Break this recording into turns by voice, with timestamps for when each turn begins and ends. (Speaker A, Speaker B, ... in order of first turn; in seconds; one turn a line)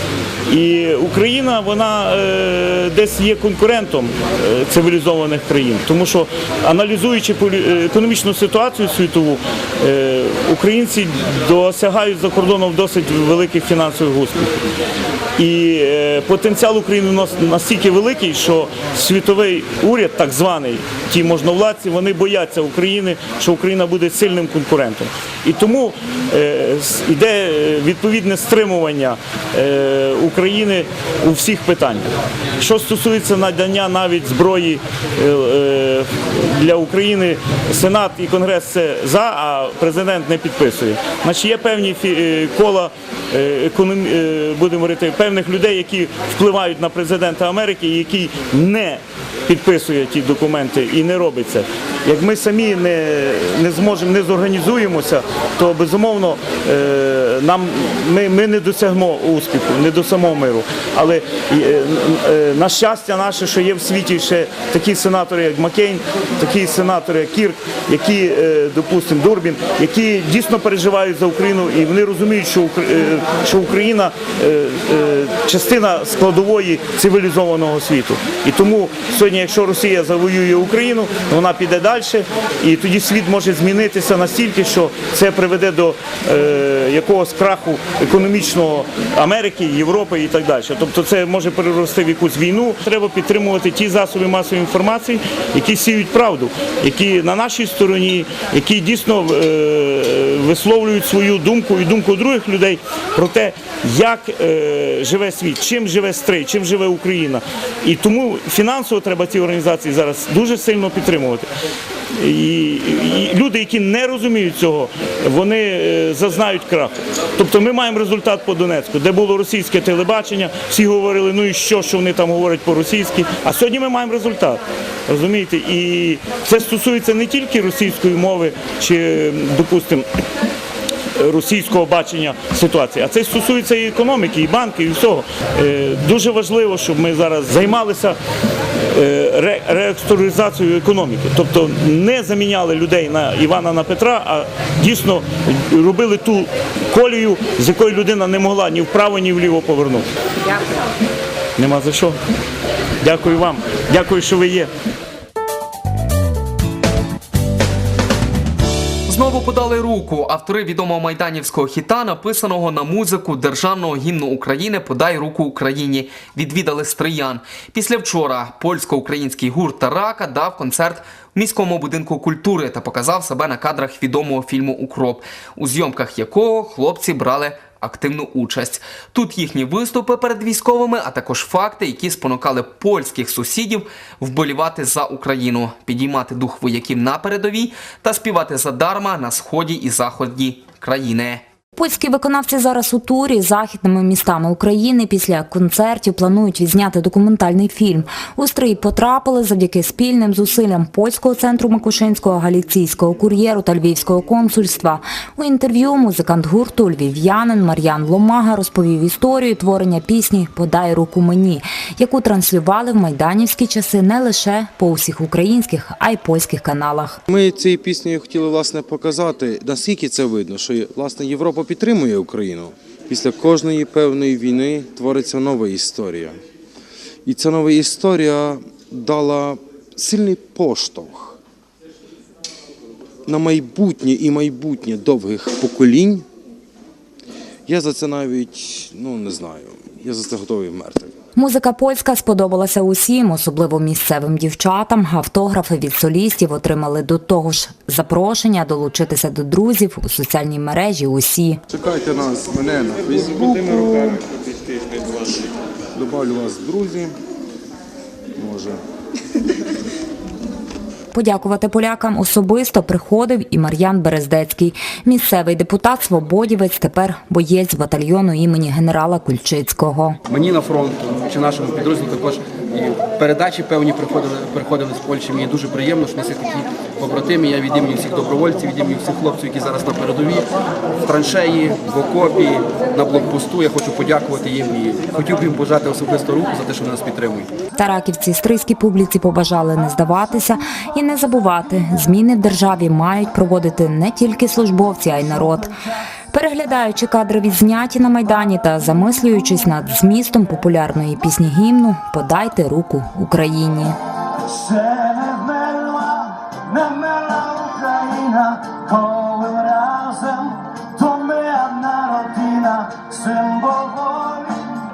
Speaker A: 0.5-14.6
Speaker A: 15.4-111.5
Speaker A: 112.2-130.1
Speaker A: 131.2-138.2
Speaker A: 138.8-150.1
Speaker A: 151.6-152.2
Speaker A: 153.0-154.7
Speaker B: 159.1-191.4
Speaker C: 191.8-217.2
Speaker D: 217.3-226.4
Speaker D: 227.3-231.4
Speaker D: 233.3-236.2
Speaker D: 237.7-241.1
Speaker C: 241.4-251.6
Speaker D: 251.7-254.3
Speaker D: 255.9-257.1
Speaker D: 258.4-258.8
Speaker C: 261.1-270.2
Speaker E: 270.3-280.4
Speaker E: 281.0-287.5
Speaker C: 287.8-295.7
Speaker C: 296.3-304.0
Speaker A: 305.0-305.3
Speaker F: 305.1-306.2
Speaker A: 306.9-308.2
Speaker F: 308.2-314.5